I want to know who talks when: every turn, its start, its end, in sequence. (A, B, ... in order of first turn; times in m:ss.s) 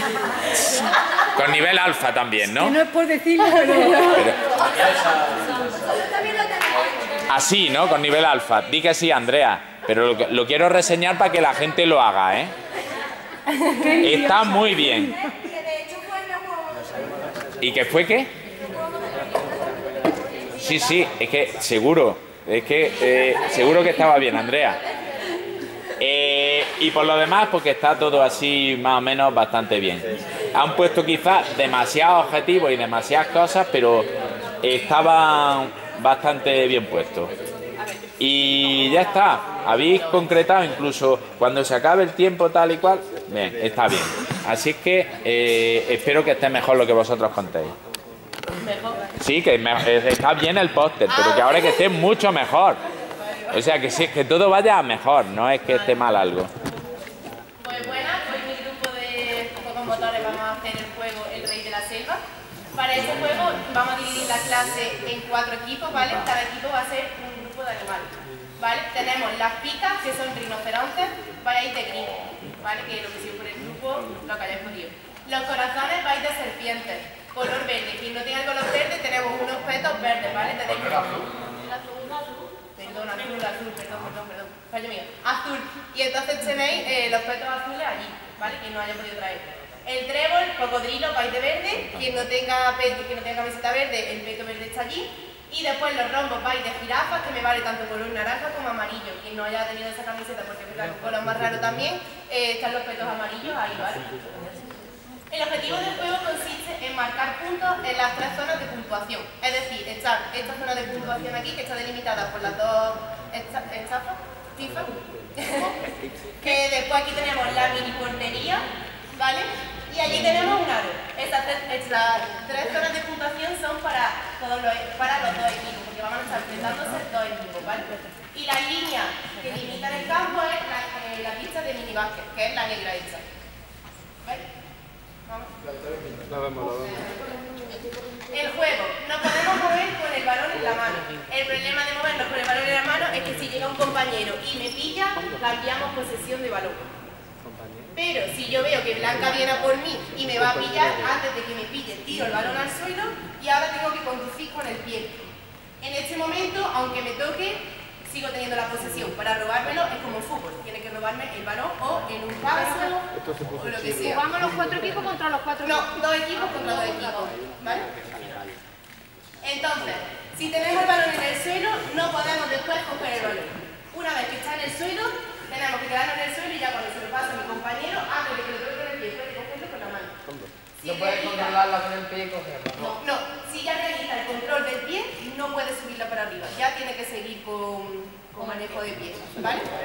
0:01.3-0:02.8 A
0:02.6-0:04.9 B
0:04.1-0:04.4 A
0:05.7-0:07.3 B
0:07.3-0:12.5 A
0:13.5-0:17.1 B
0:14.0-0:15.2 A
0:17.6-0:18.3 A
0:18.6-0:20.6 B
0:20.6-0:24.8 A
0:26.0-0:34.1 A
0:34.6-0:37.3 A
0:38.2-0:47.7 A
0:48.6-0:49.0 C
0:49.2-0:52.8 A
0:51.1-0:52.0 C
0:53.2-0:53.8 C
0:53.5-0:56.5 A
0:57.6-1:02.2 C
1:02.8-1:44.5 C
1:31.9-1:32.2 A
1:45.3-1:55.7 C
1:56.4-1:58.6 C
1:59.2-2:13.2 C
2:16.8-2:17.2 C
2:18.3-2:26.8 C
2:28.0-2:35.2 C
2:35.8-2:43.1 C
2:43.6-2:44.3 C
2:45.6-2:47.8 C
2:49.4-3:00.1 C
3:00.8-3:01.6 C
3:00.8-3:03.0 D
3:02.8-3:09.7 C